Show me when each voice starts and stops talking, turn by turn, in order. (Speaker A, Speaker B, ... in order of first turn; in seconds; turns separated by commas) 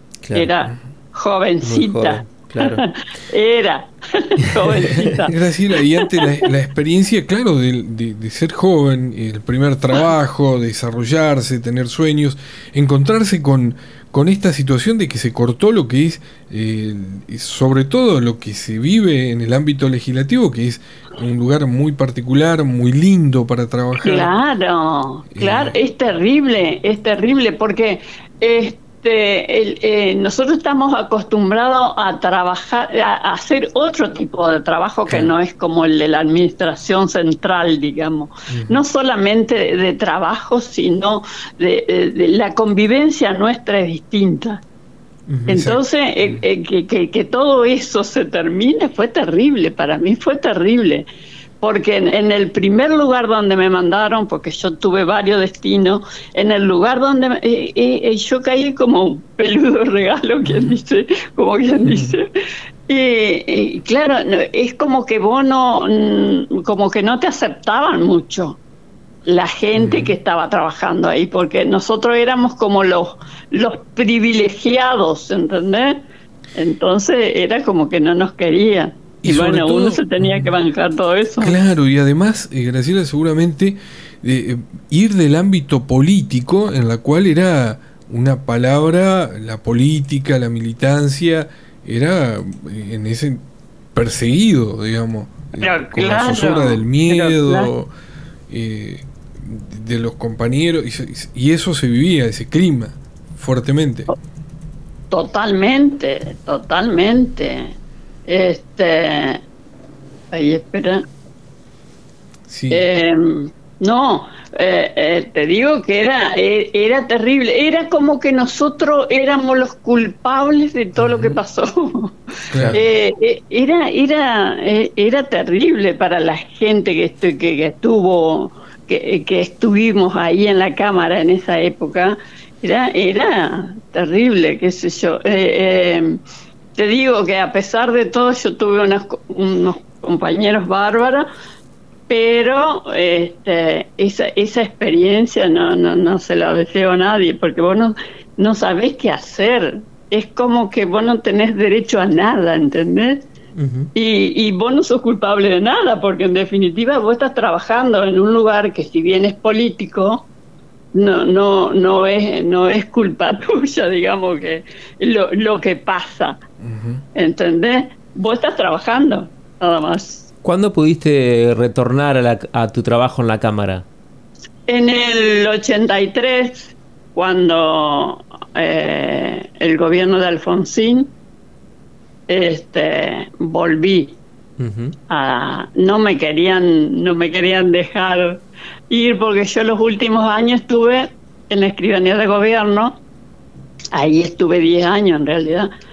Speaker A: 0.2-0.5, Speaker B: 0.3-6.5, Speaker A: 1.6-2.9, Speaker C: 5.0-24.3, Speaker B: 24.0-44.6, Speaker C: 25.4-25.8, Speaker C: 38.5-38.8, Speaker A: 45.3-45.5, Speaker C: 45.5-46.4, Speaker B: 45.5-51.1, Speaker B: 51.6-62.3, Speaker C: 61.9-62.2, Speaker B: 62.9-68.6, Speaker B: 69.3-76.0, Speaker C: 69.8-70.1, Speaker B: 76.6-81.6, Speaker C: 79.2-80.5, Speaker C: 81.4-93.4, Speaker C: 94.0-97.9, Speaker B: 95.6-97.7, Speaker C: 98.5-104.1, Speaker B: 105.1-107.8, Speaker B: 108.3-109.4, Speaker B: 110.3-111.0, Speaker C: 112.5-112.9, Speaker B: 112.7-136.2, Speaker C: 122.5-122.8, Speaker B: 136.8-141.3, Speaker B: 142.1-153.2, Speaker A: 153.6-153.9, Speaker B: 153.9-160.3, Speaker B: 160.9-166.4, Speaker C: 166.6-167.0, Speaker B: 167.2-170.3, Speaker A: 170.4-173.9, Speaker B: 174.7-181.1, Speaker B: 182.3-184.2, Speaker A: 184.6-184.9, Speaker B: 185.1-193.0, Speaker B: 193.9-195.7